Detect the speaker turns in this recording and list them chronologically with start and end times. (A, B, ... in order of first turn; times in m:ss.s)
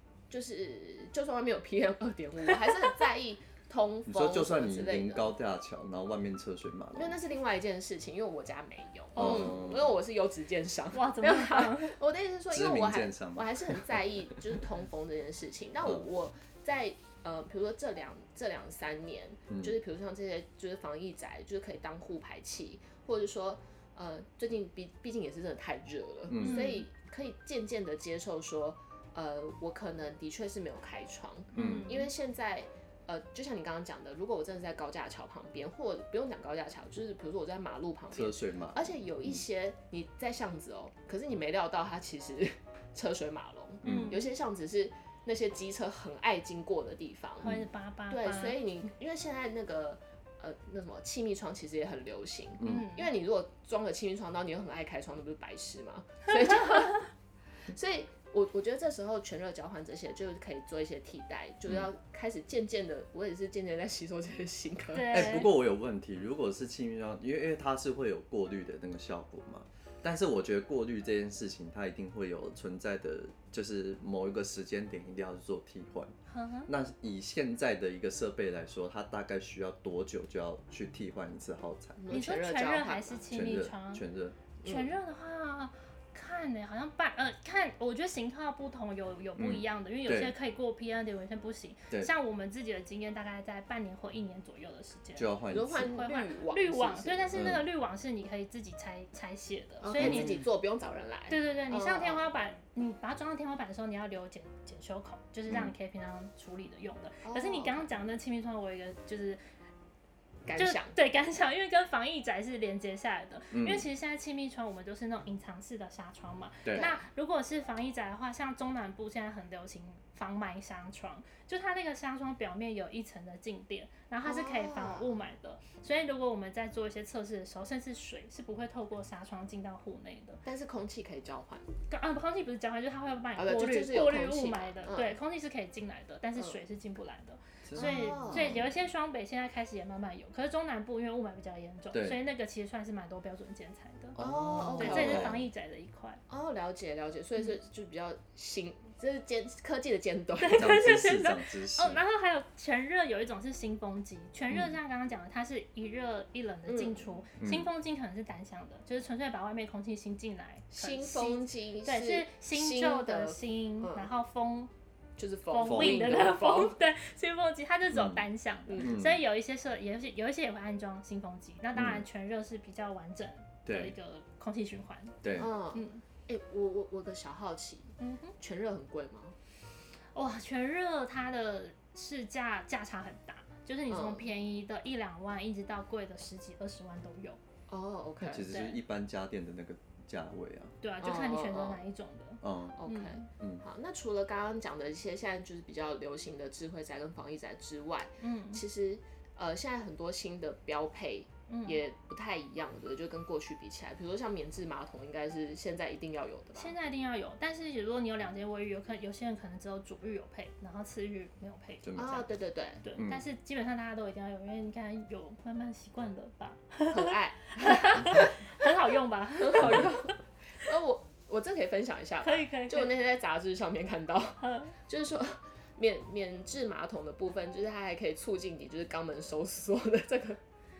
0:00.3-0:05.3 A
0:04.1-0:07.2 B
0:06.9-0:47.5 A
0:09.2-0:10.0 B
0:09.2-0:09.6 C
0:10.9-0:11.9 C
0:12.5-0:14.1 B
0:19.5-0:19.8 B
0:26.3-0:26.7 B
0:26.4-0:26.8 C
0:31.5-0:32.1 C
0:31.6-0:31.9 B
0:38.1-0:39.4 B
0:43.8-0:44.2 B
0:43.8-0:44.2 C
0:47.4-0:48.6 C
0:48.1-0:57.1 A
0:52.6-0:53.1 C
0:57.7-1:05.3 A
1:04.9-1:05.5 C
1:05.1-1:16.1 B
1:16.3-1:16.7 C
1:16.7-1:22.0 B
1:22.0-1:23.2 A
1:22.1-1:24.0 C
1:23.3-1:24.4 B
1:24.6-1:24.9 A
1:24.6-1:40.4 C
1:29.4-1:30.3 B
1:35.2-1:35.9 B
1:35.5-1:37.4 A
1:37.3-1:37.6 B
1:39.8-1:42.2 A
1:40.0-1:40.4 B
1:41.3-1:49.4 C
1:47.2-1:47.9 A
1:50.4-1:50.9 A
1:50.6-2:10.4 C
1:53.5-1:53.8 B
1:56.7-1:57.0 A
2:04.2-2:05.1 A
2:10.4-2:11.7 A
2:11.9-2:24.2 C
2:13.4-2:15.2 A
2:17.6-2:18.7 B
2:17.8-2:18.6 A
2:21.9-2:22.2 B
2:24.2-2:25.4 B
2:24.2-2:25.4 A
2:24.8-2:26.2 C
2:26.3-2:30.7 A
2:30.4-2:44.7 C
2:30.5-2:32.0 B
2:34.5-2:34.8 B
2:36.7-2:37.0 A
2:37.4-2:37.7 B
2:40.7-2:44.1 A
2:45.2-2:46.7 A
2:45.5-2:55.2 C
2:45.6-2:46.3 B
2:47.9-2:48.2 B
2:48.7-2:49.0 A
2:48.8-2:49.2 B
2:51.7-2:52.0 B
2:53.6-2:53.9 B
2:55.2-2:55.5 B
2:55.4-2:59.3 A
2:55.7-2:56.0 C
2:58.0-2:58.3 C
3:00.1-3:07.4 C
3:03.9-3:04.2 A
3:07.7-3:08.5 A
3:08.2-3:10.7 B
3:08.3-3:08.8 C
3:10.8-3:13.3 C
3:11.0-3:11.8 A
3:12.4-3:12.8 B
3:12.8-3:26.7 A
3:18.2-3:18.6 C
3:21.5-3:21.8 C
3:26.5-3:32.2 C
3:31.8-3:32.2 B
3:32.0-3:32.8 A
3:32.8-3:40.0 C
3:33.0-3:33.2 B
3:36.9-3:38.4 A
3:39.4-3:50.4 A
3:42.2-3:42.9 C
3:44.4-3:44.7 C